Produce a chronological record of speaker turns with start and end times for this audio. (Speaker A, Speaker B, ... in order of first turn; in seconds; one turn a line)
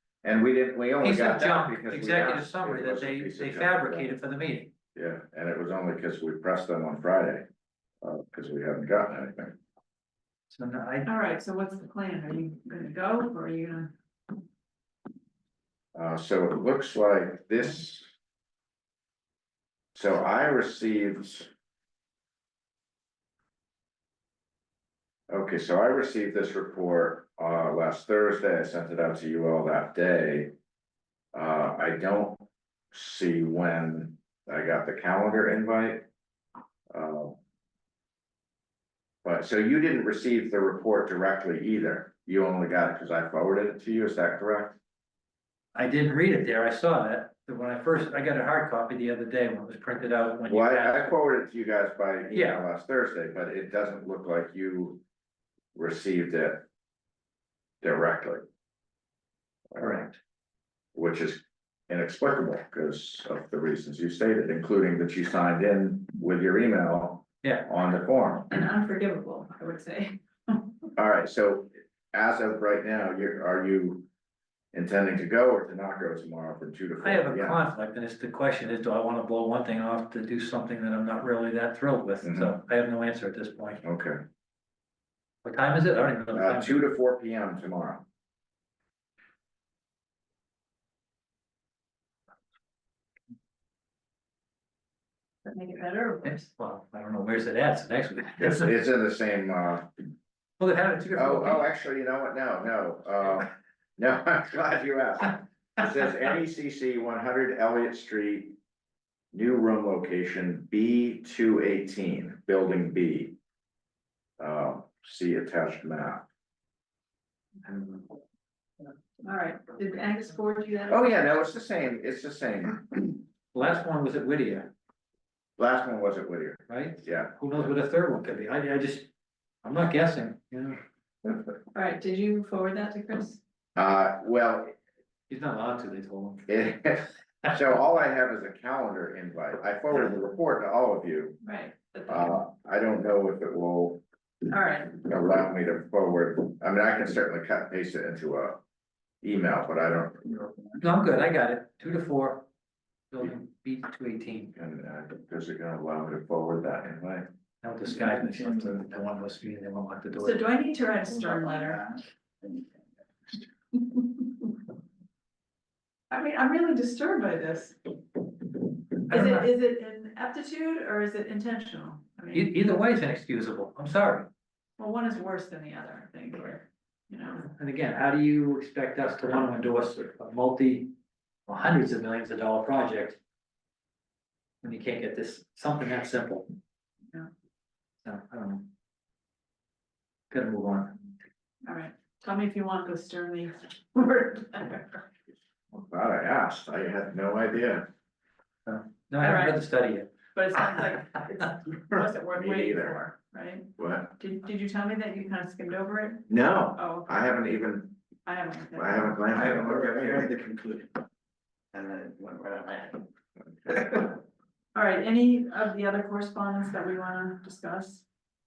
Speaker A: 0.2-4.0
Speaker B: 1.0-4.7
Speaker A: 4.9-7.5
Speaker A: 8.0-9.6
Speaker B: 10.5-11.1
Speaker C: 11.1-13.9
Speaker A: 15.9-18.1
Speaker A: 19.9-21.5
Speaker A: 25.3-30.5
Speaker A: 31.3-36.1
Speaker A: 36.9-37.4
Speaker A: 39.2-44.8
Speaker B: 45.7-51.1
Speaker A: 50.5-55.0
Speaker B: 52.3-52.6
Speaker A: 55.7-56.6
Speaker A: 57.8-58.4
Speaker A: 59.7-60.1
Speaker B: 59.8-60.2
Speaker A: 60.9-68.5
Speaker C: 68.5-70.7
Speaker A: 71.0-74.1
Speaker A: 74.7-77.6
Speaker B: 77.0-83.8
Speaker A: 82.2-82.5
Speaker A: 83.8-84.2
Speaker B: 85.4-86.8
Speaker A: 86.3-88.0
Speaker C: 95.4-96.5
Speaker B: 96.2-98.7
Speaker A: 98.4-99.9
Speaker B: 100.6-101.7
Speaker A: 101.2-108.5
Speaker A: 109.3-113.3
Speaker A: 114.4-116.2
Speaker C: 119.2-121.1
Speaker A: 120.9-123.1
Speaker B: 123.5-124.7
Speaker A: 125.6-127.7
Speaker B: 126.7-129.1
Speaker B: 129.6-130.8
Speaker C: 131.7-133.4
Speaker A: 133.8-134.8
Speaker B: 135.3-136.5
Speaker A: 136.5-141.4
Speaker C: 141.4-142.3
Speaker A: 142.1-144.0
Speaker C: 144.5-144.9
Speaker A: 144.9-148.6
Speaker A: 149.2-150.4
Speaker D: 150.4-150.8
Speaker B: 150.8-152.4
Speaker B: 153.1-154.5
Speaker A: 154.5-157.3
Speaker B: 157.6-160.4
Speaker C: 160.2-161.9
Speaker D: 161.2-162.6
Speaker C: 166.1-167.9
Speaker C: 169.0-172.5
Speaker B: 169.1-169.5
Speaker B: 172.3-174.3
Speaker C: 174.8-177.4
Speaker B: 177.4-180.9
Speaker B: 181.4-183.2
Speaker B: 184.6-186.4
Speaker B: 188.0-188.7
Speaker B: 190.3-191.0
Speaker C: 191.6-195.0
Speaker A: 195.7-197.8
Speaker B: 198.7-200.1
Speaker C: 199.2-199.6
Speaker C: 200.3-207.1
Speaker A: 202.3-203.0
Speaker A: 203.8-204.2
Speaker A: 206.3-208.0
Speaker C: 208.2-209.2
Speaker A: 208.8-210.3
Speaker D: 209.3-211.0
Speaker D: 211.7-213.1
Speaker A: 213.6-214.0
Speaker D: 213.7-214.1
Speaker C: 214.7-218.0